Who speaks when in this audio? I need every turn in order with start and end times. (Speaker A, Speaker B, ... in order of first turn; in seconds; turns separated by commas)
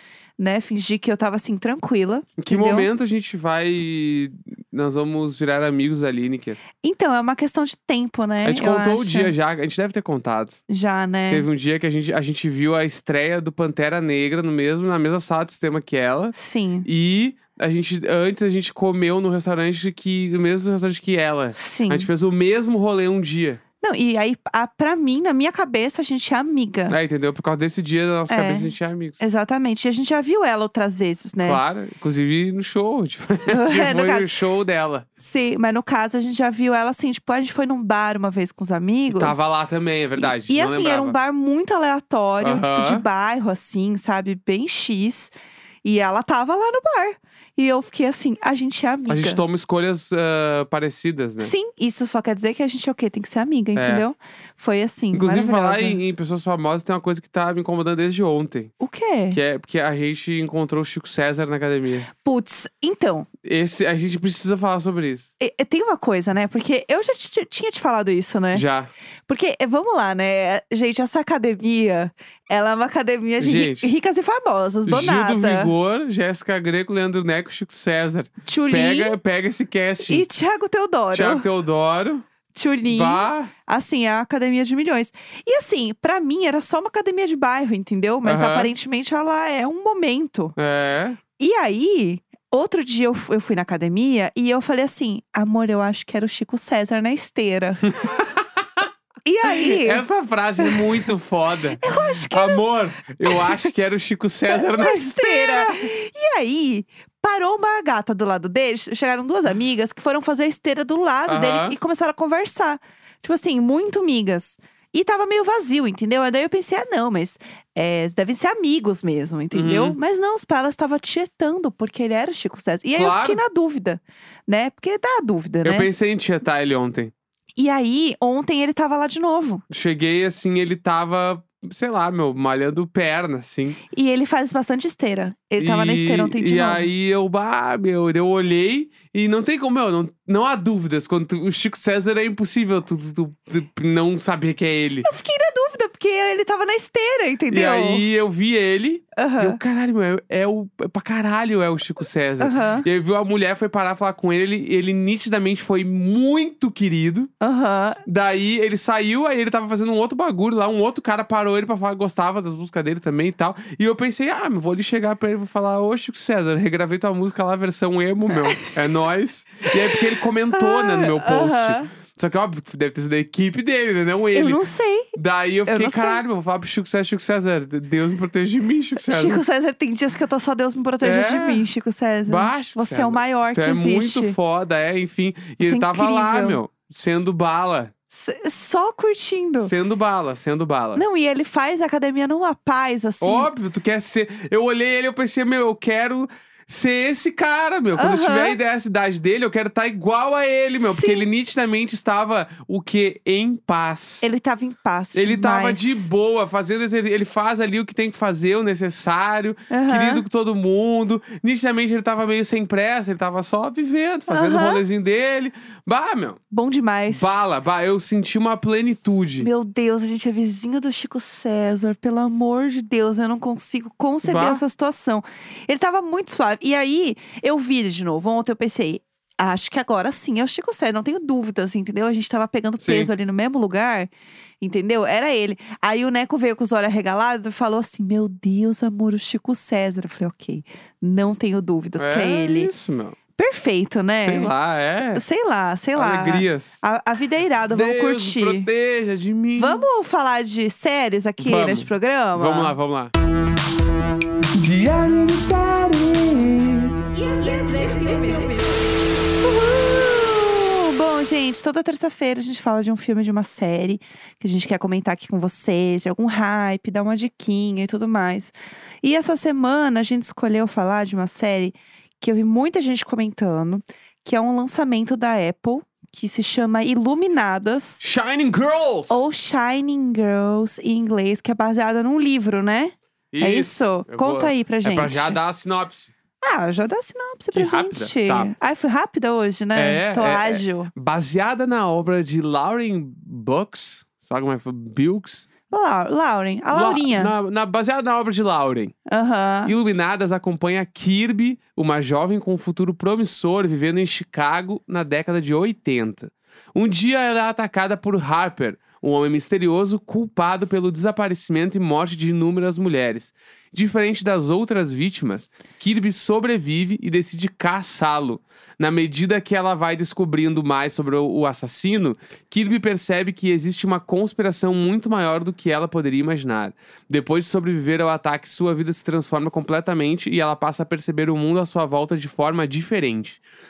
Speaker A: 0.4-2.9, Speaker B: 2.4-6.6, Speaker A: 6.8-9.3, Speaker B: 8.4-10.6, Speaker A: 10.7-11.5, Speaker B: 11.3-16.3, Speaker A: 16.4-16.9, Speaker B: 16.9-23.6, Speaker A: 21.6-22.1, Speaker A: 23.8-27.0, Speaker B: 26.9-29.2, Speaker A: 28.3-31.6, Speaker B: 31.4-35.1, Speaker A: 33.5-34.3, Speaker A: 35.2-39.5, Speaker B: 39.1-41.1, Speaker A: 40.2-45.3, Speaker B: 42.4-43.0, Speaker A: 45.8-49.4, Speaker B: 49.1-51.5, Speaker A: 51.4-56.0, Speaker B: 53.8-54.1, Speaker B: 55.1-58.7, Speaker A: 58.8-59.4, Speaker B: 59.3-62.1, Speaker A: 62.1-63.3, Speaker B: 63.4-65.3, Speaker A: 65.4-68.7, Speaker B: 68.5-68.9, Speaker A: 69.3-75.7, Speaker B: 73.4-73.9, Speaker B: 74.9-80.2, Speaker A: 78.5-79.2, Speaker A: 80.1-81.5, Speaker B: 81.1-82.2, Speaker A: 82.5-90.5, Speaker B: 82.9-83.5, Speaker B: 88.2-88.7, Speaker B: 90.6-91.2, Speaker A: 91.4-97.9, Speaker B: 97.9-98.8, Speaker A: 99.2-100.0, Speaker B: 99.4-105.8, Speaker A: 101.8-102.7, Speaker A: 103.3-103.5, Speaker A: 104.5-125.9, Speaker B: 111.3-111.8, Speaker B: 119.5-120.0, Speaker B: 123.0-123.4, Speaker B: 125.6-127.1, Speaker A: 127.6-129.6, Speaker B: 129.7-133.8, Speaker A: 133.9-136.9, Speaker B: 135.6-145.1, Speaker A: 145.0-148.1, Speaker B: 147.5-157.3, Speaker A: 149.2-149.6, Speaker A: 152.4-152.9, Speaker A: 157.4-158.0, Speaker B: 158.1-174.6, Speaker A: 168.4-168.7, Speaker A: 169.7-171.9, Speaker A: 174.3-175.1, Speaker B: 175.2-179.4, Speaker A: 175.7-176.2, Speaker A: 179.0-184.4, Speaker B: 181.0-181.7, Speaker B: 182.3-187.9, Speaker A: 185.6-186.6, Speaker A: 188.1-189.7, Speaker B: 189.6-191.0, Speaker A: 191.0-193.5, Speaker B: 193.2-204.3, Speaker A: 197.9-198.6, Speaker A: 200.8-201.3, Speaker A: 204.2-206.1, Speaker B: 205.1-216.4, Speaker A: 209.7-210.2, Speaker A: 214.3-214.8, Speaker A: 216.5-217.4, Speaker B: 217.1-219.5, Speaker A: 219.4-234.1, Speaker B: 224.2-224.6, Speaker B: 232.8-233.1, Speaker A: 234.6-242.7, Speaker B: 242.0-243.2, Speaker A: 243.4-244.5, Speaker B: 244.2-245.2, Speaker A: 245.2-248.7, Speaker B: 246.0-246.8, Speaker B: 247.7-249.8, Speaker A: 249.6-252.7, Speaker B: 251.4-253.1, Speaker B: 254.5-257.0, Speaker A: 257.1-278.1, Speaker B: 278.0-279.2, Speaker A: 279.1-285.4, Speaker B: 283.3-286.1, Speaker A: 286.4-290.9, Speaker B: 287.5-288.5, Speaker B: 289.8-295.5, Speaker A: 295.7-297.3, Speaker B: 296.7-298.9, Speaker A: 299.1-299.7, Speaker B: 299.7-333.4